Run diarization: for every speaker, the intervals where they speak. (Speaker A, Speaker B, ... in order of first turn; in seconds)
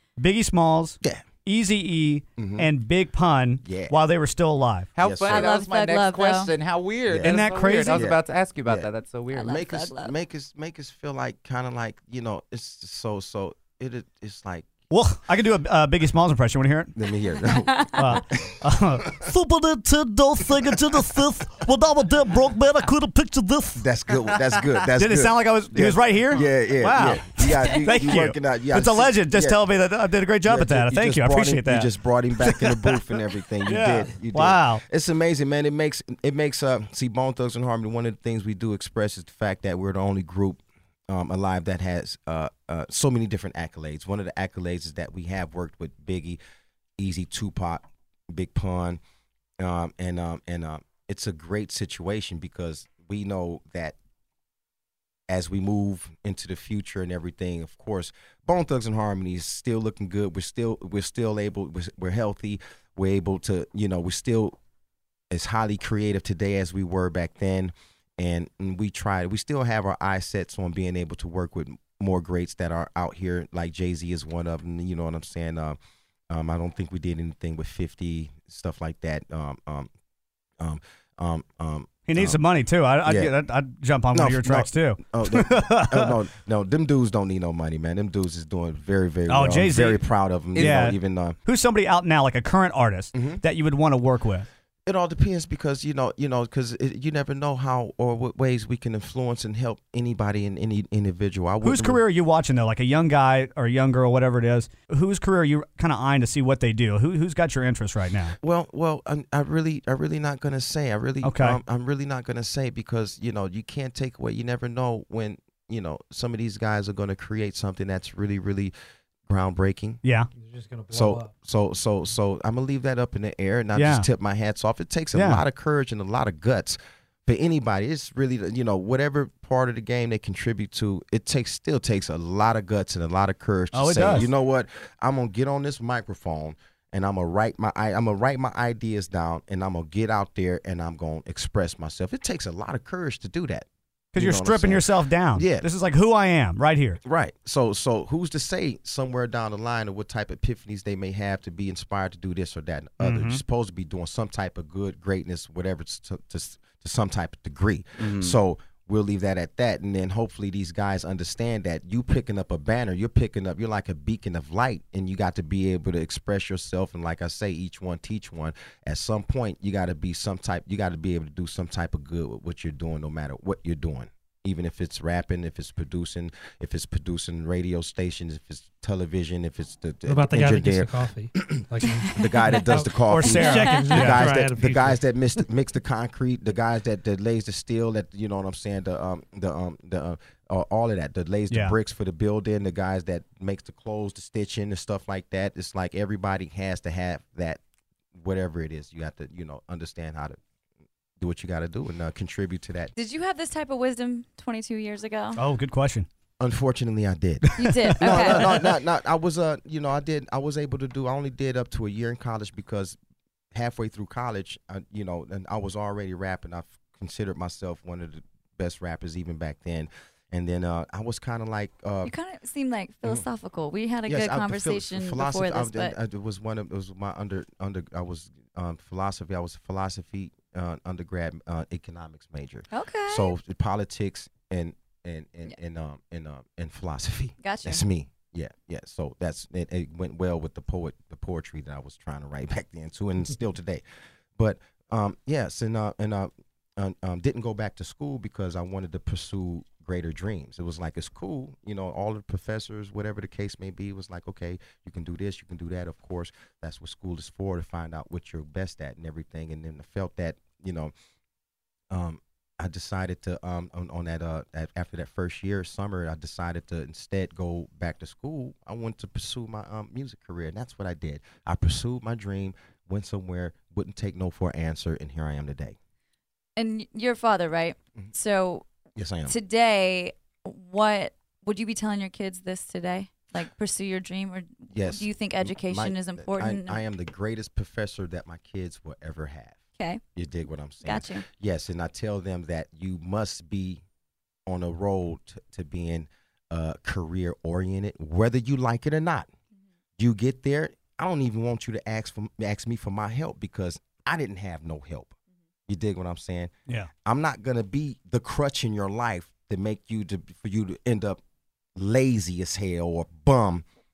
Speaker A: 0.2-4.9, 7.2-8.0, 14.9-16.9, 17.9-23.8, 24.9-31.9, 32.4-33.0, 33.6-34.8, 82.1-86.1, 89.3-94.5, 101.6-108.3, 111.2-111.6, 123.8-124.1, 125.1-125.4, 133.7-134.3, 144.1-147.0, 153.0-153.4, 183.0-184.3, 191.5-191.8, 205.4-206.1, 207.6-208.7
Speaker B: 2.4-2.7, 3.6-4.0, 5.0-5.5, 7.1-14.7, 16.9-19.3, 23.8-29.6, 30.4-46.4, 47.0-49.0, 49.6-54.0, 55.3-64.6, 65.3-75.8, 76.3-79.9, 80.6-82.4, 83.0-83.3, 84.1-91.3, 93.1-93.4, 94.8-102.0, 108.4-118.7, 119.3-120.0, 120.9-145.7, 147.0-197.6, 198.1-200.4, 201.2-202.9, 206.4-213.0, 213.5-222.1, 224.1-243.8, 244.4-260.9, 261.9-275.8, 278.9-279.3, 284.7-289.6, 290.1-293.8, 294.5-299.3, 300.0-305.1, 305.7-306.5, 307.0-311.2, 311.8-313.6
Speaker C: 5.0-9.7, 158.0-158.3
Speaker D: 5.3-6.5, 9.3-10.1, 17.7-18.0, 202.9-205.4, 207.6-208.6, 222.0-225.9, 232.7-233.3, 237.4-237.8, 276.6-278.6, 279.3-286.8, 290.8-291.2
Speaker E: 120.3-121.3, 180.1-185.0